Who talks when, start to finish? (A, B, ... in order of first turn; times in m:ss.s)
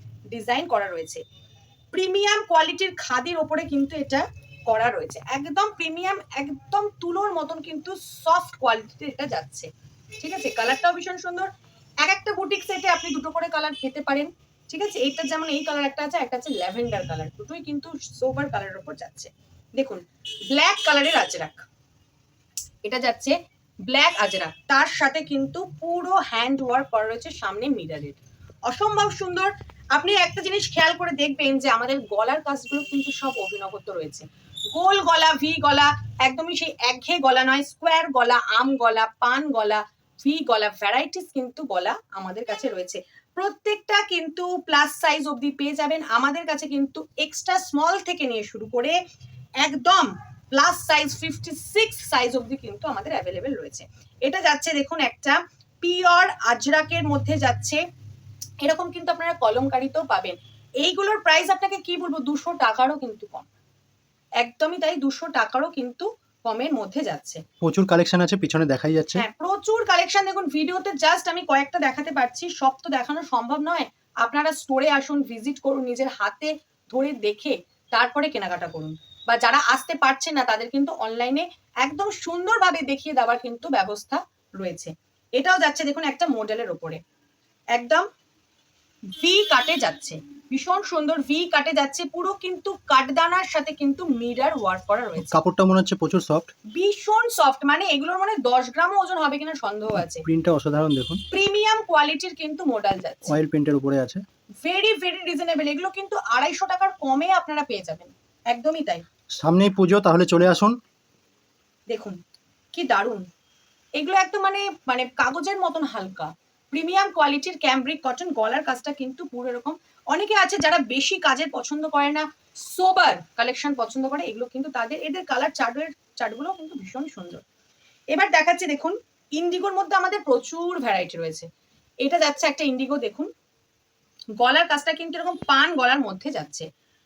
0:00.3-0:01.2 A
0:01.9-0:11.5 A
0:12.0-0:21.6 A
0:22.8-0:49.0 A
0:49.6-0:57.8 A
0:58.6-1:03.5 A
1:04.4-1:07.4 A
1:07.6-1:09.2 B
1:09.2-1:27.0 A
1:27.8-1:28.1 A
1:29.2-1:35.4 A
1:35.2-1:36.5 B
1:36.8-1:40.3 A
1:40.1-1:41.2 B
1:41.3-1:43.4 A
1:43.3-1:44.2 B
1:44.6-1:49.0 A
1:49.4-1:50.8 B
1:51.9-1:52.2 A
1:52.8-1:53.3 A
1:54.0-2:07.4 A
2:08.1-2:11.5 A
2:12.0-2:13.3 A
2:14.4-2:16.7 A